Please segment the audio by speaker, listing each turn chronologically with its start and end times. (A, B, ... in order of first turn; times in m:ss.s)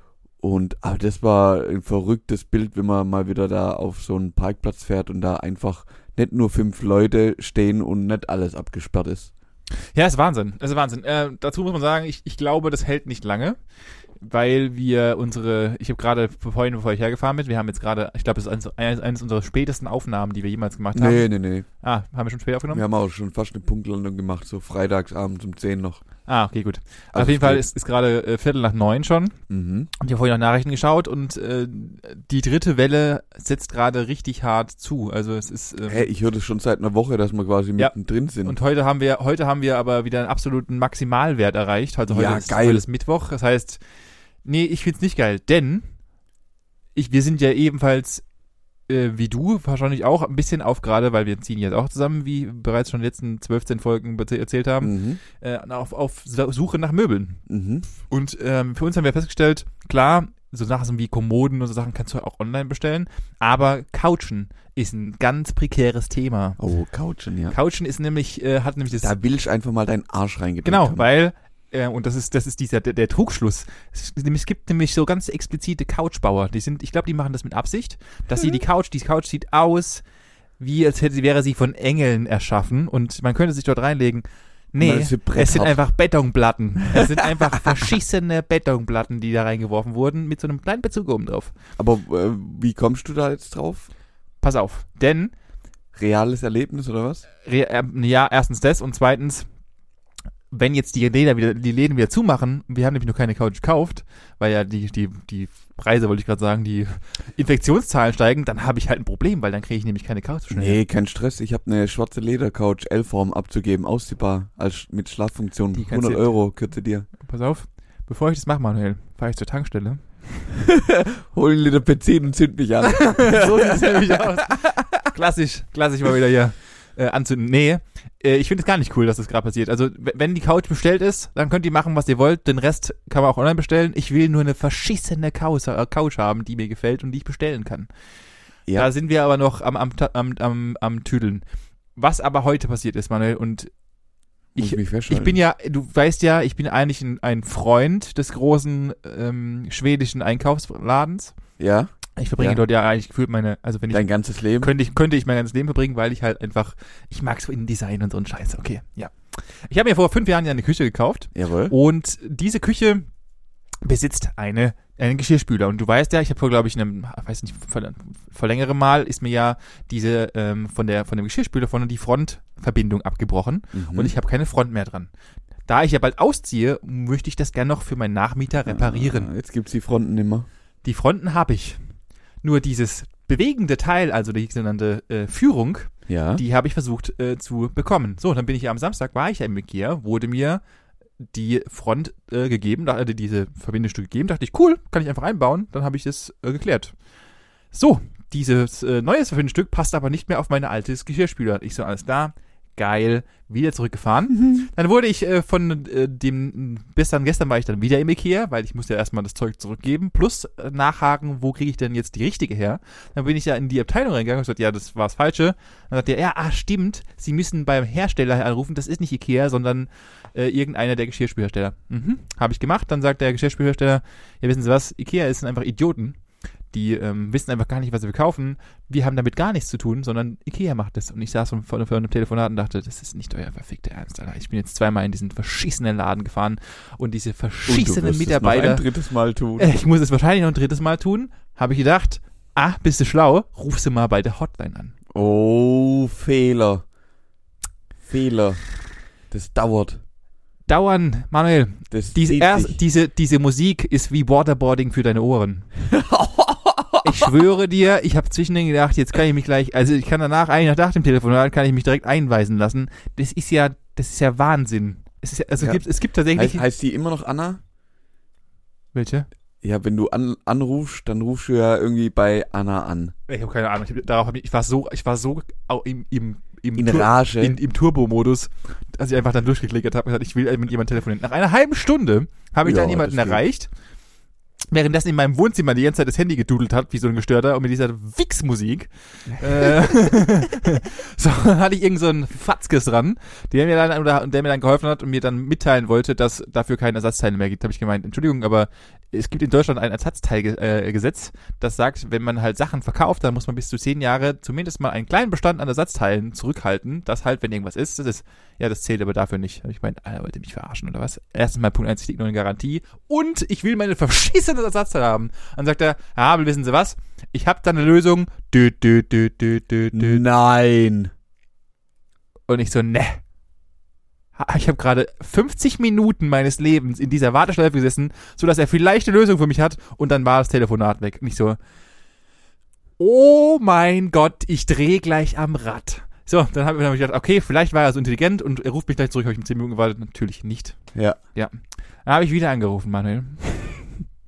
0:00.4-0:09.3 A
0:09.9-0:13.6 B
0:14.2-0:21.3 B
0:20.9-0:21.6 A
0:21.8-0:22.8 B
0:22.7-0:26.0 A
0:26.2-0:29.4 B
0:27.1-0:27.6 A
0:29.5-0:29.9 A
0:30.0-0:36.1 B
0:35.9-0:38.6 A
0:38.4-0:43.8 B
0:42.1-0:42.8 A
0:44.4-0:45.8 B
0:46.9-0:48.2 B
0:48.9-0:57.4 B
0:54.8-0:55.2 A
0:57.5-0:57.8 A
0:58.1-1:06.6 B
1:06.6-1:07.6 A
1:07.5-1:09.1 B
1:09.0-1:11.0 A
1:10.6-1:20.0 B
1:20.6-1:31.5 B
1:24.8-1:25.8 A
1:31.8-1:33.9 A
1:34.4-1:35.3 B
1:35.9-1:37.2 A
1:37.4-1:39.4 B
1:40.5-1:50.8 B
1:50.5-1:57.1 A
1:55.7-1:56.3 B
1:57.2-2:00.5 B
2:00.6-2:04.9 A
2:02.8-2:17.9 B
2:18.7-2:21.4 B
2:22.0-2:23.7 B
2:24.6-2:25.4 A
2:24.6-2:31.3 B
2:31.6-2:32.6 A
2:32.2-2:43.1 B
2:33.9-2:34.7 A
2:41.3-2:41.7 A
2:43.8-2:55.1 B
2:53.7-2:54.1 A
2:55.7-2:59.3 B
2:58.6-3:00.5 A
3:00.8-3:01.8 B
3:02.4-3:10.6 B
3:06.1-3:06.4 A
3:11.3-3:16.9 B
3:17.7-3:46.2 B
3:24.3-3:24.7 A
3:46.7-3:58.8 B
3:57.7-3:59.7 A
3:59.6-4:04.9 B
4:05.1-4:06.8 A
4:08.0-4:08.6 A
4:09.3-4:10.0 A
4:10.7-4:15.7 B
4:11.9-4:12.8 A
4:15.8-4:17.3 A
4:17.0-4:26.6 B
4:26.3-4:27.6 A
4:28.9-4:29.2 B
4:29.6-4:33.1 A
4:33.3-4:43.7 B
4:36.8-4:37.5 A
4:42.6-4:43.4 A
4:44.7-5:20.2 B
4:49.4-4:49.9 A
5:19.9-5:21.1 A
5:22.5-5:23.2 B
5:24.4-5:31.6 B
5:33.0-5:40.8 B
5:41.3-5:44.0 B